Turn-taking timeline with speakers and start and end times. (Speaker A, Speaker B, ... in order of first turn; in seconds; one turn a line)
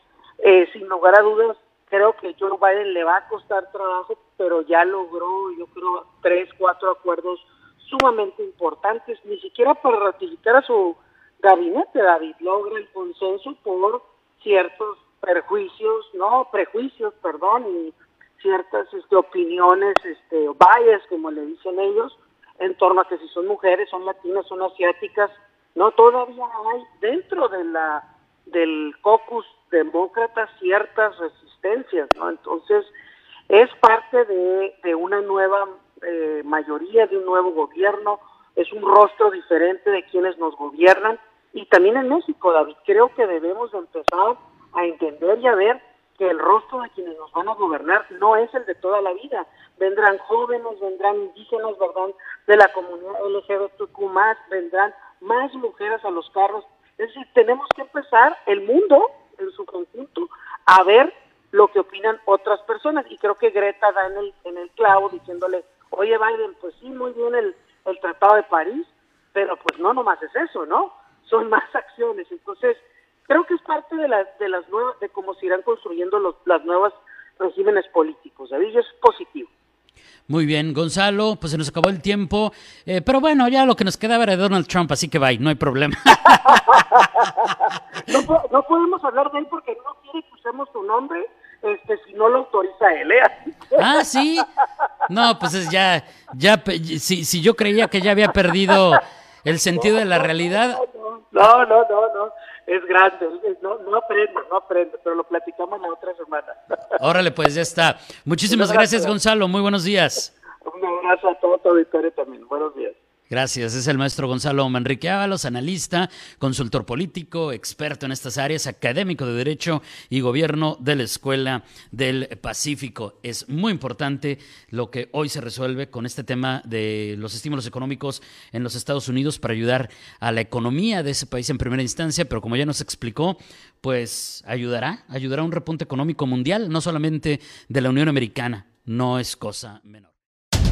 Speaker A: 0.4-32.9
Speaker A: 33.5-79.5
Speaker B: 80.3-86.8
Speaker A: 86.5-87.3
Speaker A: 88.0-93.8
Speaker B: 93.8-94.5
Speaker B: 95.1-100.8
Speaker A: 99.8-106.6
Speaker B: 106.9-110.3
Speaker A: 108.5-109.2
Speaker A: 110.6-113.0
Speaker B: 113.3-140.1